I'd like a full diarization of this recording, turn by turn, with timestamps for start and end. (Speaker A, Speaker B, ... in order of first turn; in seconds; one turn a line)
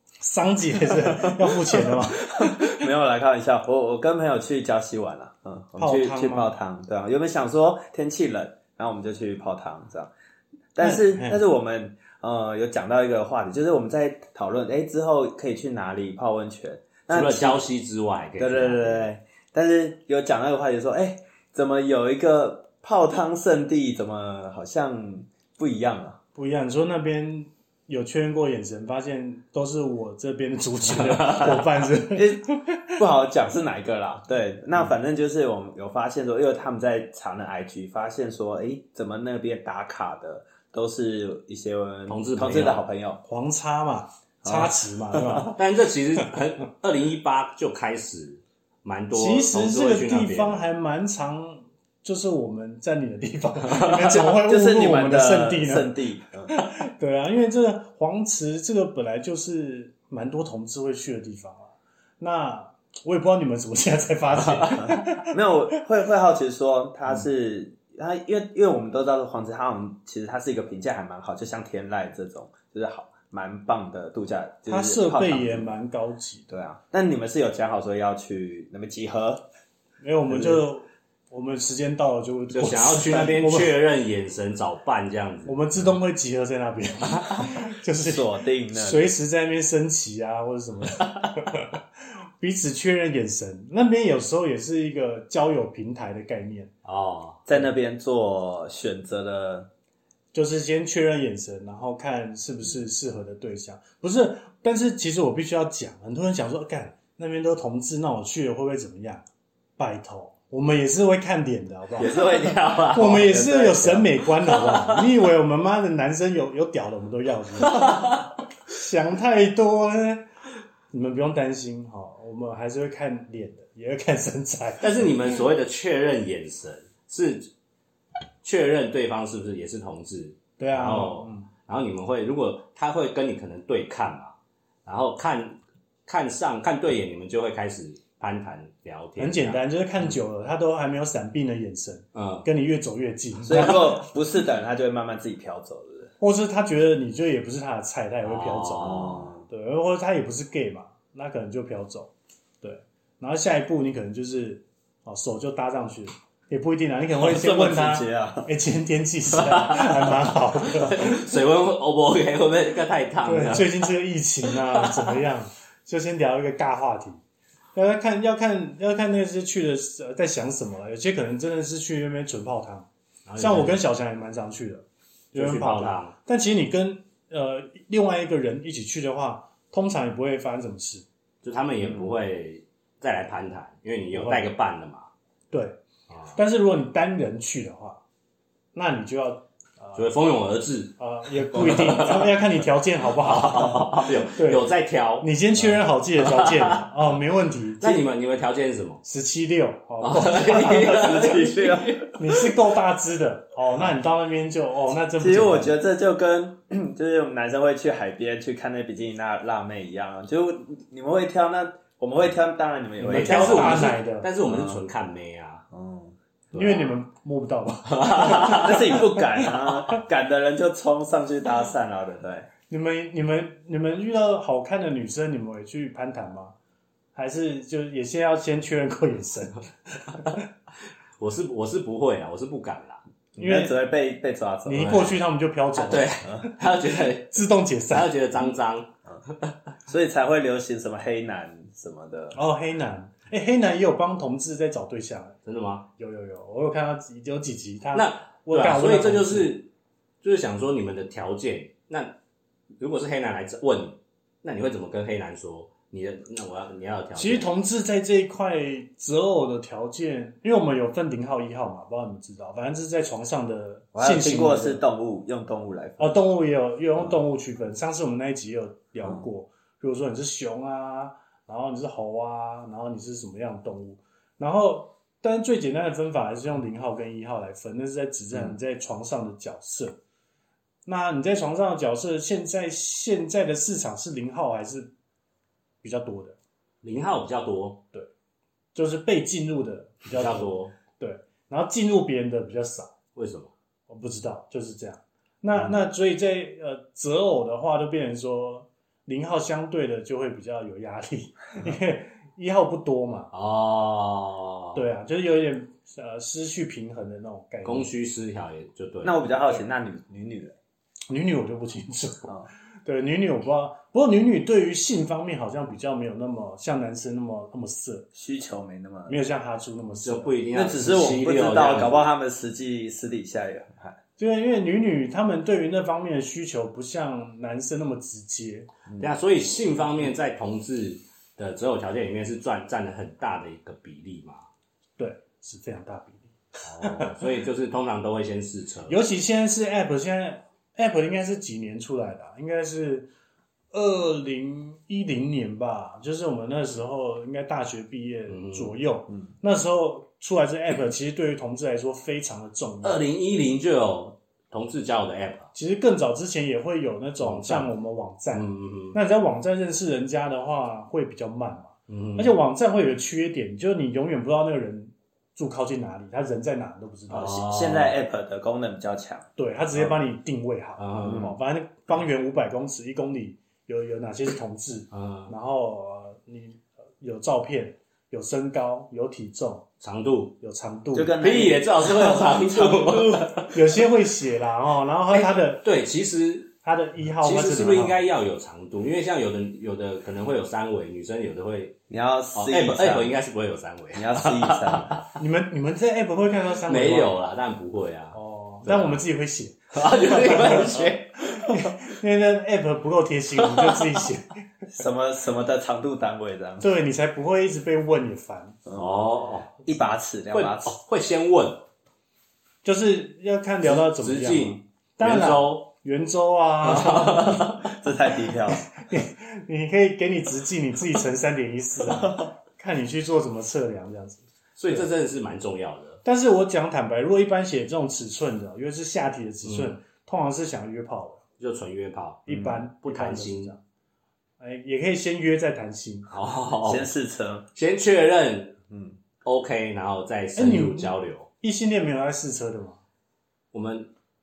Speaker A: 0.2-2.8
Speaker B: 1.1-10.1
Speaker A: 5.8-6.5
Speaker B: 10.8-17.6
Speaker A: 10.8-11.4
Speaker C: 17.1-19.1
Speaker B: 18.4-26.2
Speaker A: 26.4-32.9
Speaker C: 31.1-31.6
Speaker B: 32.1-43.2
Speaker C: 42.1-42.8
Speaker A: 43.2-45.5
Speaker B: 44.4-45.5
Speaker C: 45.6-50.7
Speaker A: 49.1-55.9
Speaker C: 53.7-54.0
Speaker B: 54.0-56.5
Speaker A: 56.5-65.3
Speaker B: 65.2-75.8
Speaker A: 74.7-76.5
Speaker B: 76.5-79.5
Speaker A: 80.0-83.7
Speaker B: 80.3-80.6
Speaker C: 82.5-85.6
Speaker A: 85.5-91.8
Speaker B: 88.0-89.1
Speaker A: 92.4-96.7
Speaker C: 96.8-97.4
Speaker B: 97.5-99.7
Speaker A: 100.3-109.2
Speaker A: 109.8-112.1
Speaker B: 112.0-114.1
Speaker C: 112.2-113.3
Speaker A: 112.9-118.0
Speaker C: 114.7-115.1
Speaker C: 117.7-118.2
Speaker A: 118.7-120.3
Speaker A: 120.9-125.1
Speaker C: 124.8-127.5
Speaker C: 128.4-134.3
Speaker A: 130.6-131.5
Speaker C: 134.9-140.2
Speaker A: 139.2-144.0
Speaker C: 142.1-142.5
Speaker B: 143.4-146.1
Speaker A: 146.2-161.2
Speaker C: 148.3-149.2
Speaker B: 148.8-149.5
Speaker B: 157.2-158.5
Speaker C: 159.4-160.1
Speaker C: 160.7-163.8
Speaker A: 163.2-167.2
Speaker A: 167.7-181.1
Speaker C: 173.3-173.8
Speaker C: 175.3-176.1
Speaker C: 181.4-185.1
Speaker B: 181.8-182.1
Speaker A: 184.1-184.5
Speaker A: 185.5-185.8
Speaker A: 186.3-188.0
Speaker A: 188.7-190.1
Speaker C: 189.9-192.3
Speaker A: 191.0-194.6
Speaker C: 193.2-195.3
Speaker A: 195.2-198.0
Speaker C: 196.2-196.8
Speaker C: 197.8-199.0
Speaker A: 199.0-201.0
Speaker C: 200.0-202.2
Speaker B: 200.4-202.1
Speaker A: 202.2-205.8
Speaker B: 205.2-214.8
Speaker A: 213.0-214.3
Speaker C: 213.0-215.7
Speaker B: 215.7-216.2
Speaker C: 216.5-216.9
Speaker A: 216.5-219.2
Speaker C: 217.9-218.8
Speaker B: 218.4-222.5
Speaker A: 222.7-226.5
Speaker A: 227.2-230.4
Speaker C: 231.2-233.0
Speaker B: 233.3-235.1
Speaker A: 233.4-233.8
Speaker A: 234.7-236.6
Speaker C: 234.8-235.2
Speaker C: 235.8-239.5
Speaker A: 237.3-238.1
Speaker B: 239.9-242.4
Speaker A: 242.3-245.4
Speaker C: 245.4-245.9
Speaker A: 246.0-249.6
Speaker C: 247.9-249.7
Speaker C: 250.2-252.2
Speaker C: 252.8-257.5
Speaker A: 257.1-264.8
Speaker B: 263.9-266.2
Speaker A: 266.0-280.0
Speaker A: 280.9-284.9
Speaker A: 285.8-286.4
Speaker C: 286.8-287.8
Speaker A: 288.8-292.9
Speaker C: 290.1-290.8
Speaker C: 293.2-293.5
Speaker A: 293.9-303.3
Speaker C: 303.3-304.9
Speaker A: 304.8-307.9
Speaker C: 307.6-309.2
Speaker B: 309.0-310.6
Speaker A: 311.1-312.3
Speaker A: 312.9-318.1
Speaker B: 318.1-319.2
Speaker A: 319.1-320.4
Speaker C: 320.0-322.1
Speaker B: 320.5-324.0
Speaker A: 324.2-328.7
Speaker B: 328.9-329.1
Speaker C: 329.0-334.5
Speaker A: 335.0-337.2
Speaker C: 336.6-339.0
Speaker A: 338.9-343.1
Speaker A: 343.7-353.0
Speaker C: 348.3-348.8
Speaker C: 352.8-355.5
Speaker A: 355.5-367.5
Speaker C: 357.2-357.7
Speaker C: 358.3-359.0
Speaker C: 361.9-362.3
Speaker C: 367.1-367.9
Speaker B: 367.4-369.9
Speaker A: 369.4-379.7
Speaker C: 370.8-371.3
Speaker B: 371.1-371.4
Speaker C: 374.9-375.3
Speaker C: 379.8-380.4
Speaker A: 380.4-381.1
Speaker B: 380.9-383.4
Speaker C: 381.2-383.6
Speaker A: 383.5-385.6
Speaker C: 385.1-386.5
Speaker A: 386.6-388.0
Speaker C: 387.2-391.8
Speaker B: 391.9-393.1
Speaker C: 392.4-395.0
Speaker B: 393.9-395.0
Speaker A: 395.2-397.1
Speaker C: 396.7-399.0
Speaker A: 398.1-404.3
Speaker C: 399.7-401.6
Speaker C: 403.4-403.9
Speaker B: 404.7-406.7
Speaker A: 406.6-408.6
Speaker B: 408.7-408.9
Speaker C: 408.8-409.5
Speaker B: 409.6-410.8
Speaker C: 410.3-411.6
Speaker A: 412.6-417.6
Speaker C: 413.6-415.6
Speaker C: 416.6-417.6
Speaker B: 417.6-418.7
Speaker A: 418.7-424.9
Speaker C: 424.6-426.0
Speaker A: 426.1-431.2
Speaker C: 429.4-429.8
Speaker C: 431.4-433.6
Speaker A: 432.3-433.6
Speaker B: 432.3-432.6
Speaker A: 434.4-436.1
Speaker C: 436.1-436.9
Speaker B: 436.6-437.4
Speaker C: 437.6-438.6
Speaker B: 438.7-439.0
Speaker C: 439.2-441.3
Speaker A: 440.4-442.8
Speaker C: 443.5-443.9